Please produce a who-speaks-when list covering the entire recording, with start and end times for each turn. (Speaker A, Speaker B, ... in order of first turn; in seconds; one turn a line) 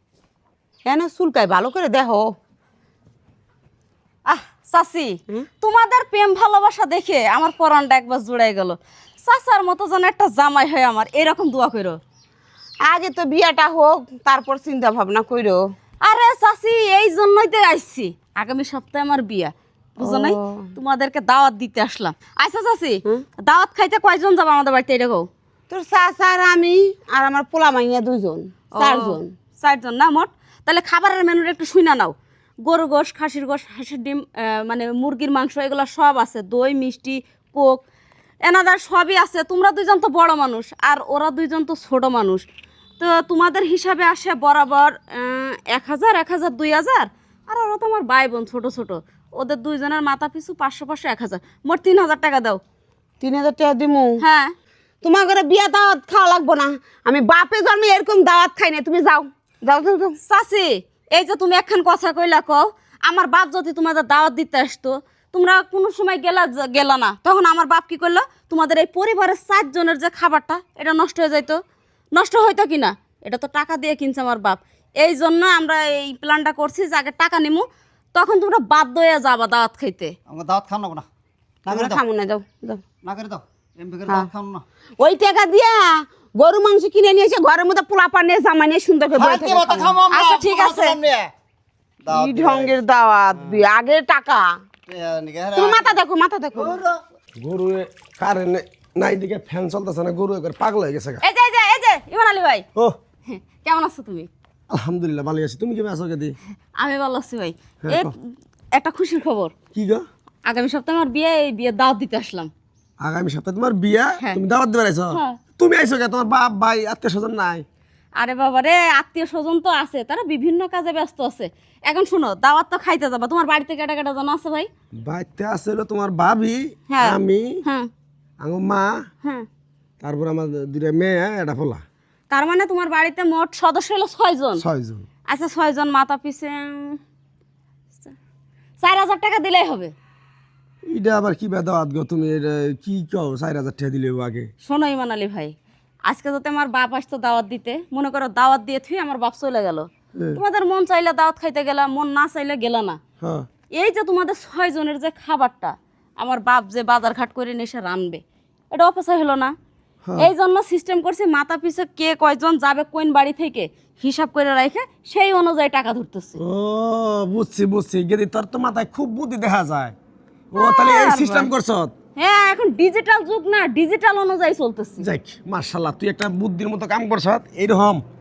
Speaker A: 0.9-2.3
Speaker B: 4.3-12.0
Speaker A: 12.8-15.6
Speaker B: 16.0-25.3
Speaker A: 20.0-20.7
Speaker A: 25.7-29.3
Speaker B: 28.7-37.8
Speaker B: 38.4-42.5
Speaker B: 43.0-52.6
Speaker A: 53.2-54.2
Speaker B: 54.2-54.5
Speaker A: 55.0-60.2
Speaker B: 60.2-71.6
Speaker B: 72.1-80.2
Speaker C: 80.3-81.1
Speaker C: 81.7-82.0
Speaker A: 81.7-82.8
Speaker C: 83.0-84.7
Speaker A: 85.0-90.0
Speaker C: 89.2-91.3
Speaker B: 90.1-91.0
Speaker C: 92.0-92.8
Speaker A: 92.1-94.5
Speaker C: 94.9-96.0
Speaker A: 95.6-96.8
Speaker C: 96.5-97.0
Speaker D: 97.4-101.2
Speaker B: 101.2-102.7
Speaker B: 103.3-104.3
Speaker D: 104.7-106.3
Speaker B: 106.8-108.2
Speaker D: 107.8-108.1
Speaker B: 108.7-109.5
Speaker D: 109.7-110.0
Speaker B: 110.5-112.5
Speaker D: 113.0-117.6
Speaker B: 115.1-115.4
Speaker B: 118.2-124.7
Speaker D: 125.0-127.6
Speaker B: 126.9-127.9
Speaker D: 128.4-129.0
Speaker D: 130.0-131.8
Speaker B: 132.3-134.6
Speaker D: 134.6-135.1
Speaker B: 135.3-137.0
Speaker B: 138.8-139.9
Speaker D: 140.9-144.5
Speaker B: 144.6-145.6
Speaker B: 146.1-153.0
Speaker D: 150.2-150.4
Speaker D: 153.2-153.5
Speaker B: 153.7-159.6
Speaker D: 160.0-160.3
Speaker B: 160.2-166.4
Speaker D: 166.4-169.9
Speaker D: 170.5-171.9
Speaker B: 170.6-171.5
Speaker B: 172.2-175.1
Speaker D: 175.0-178.0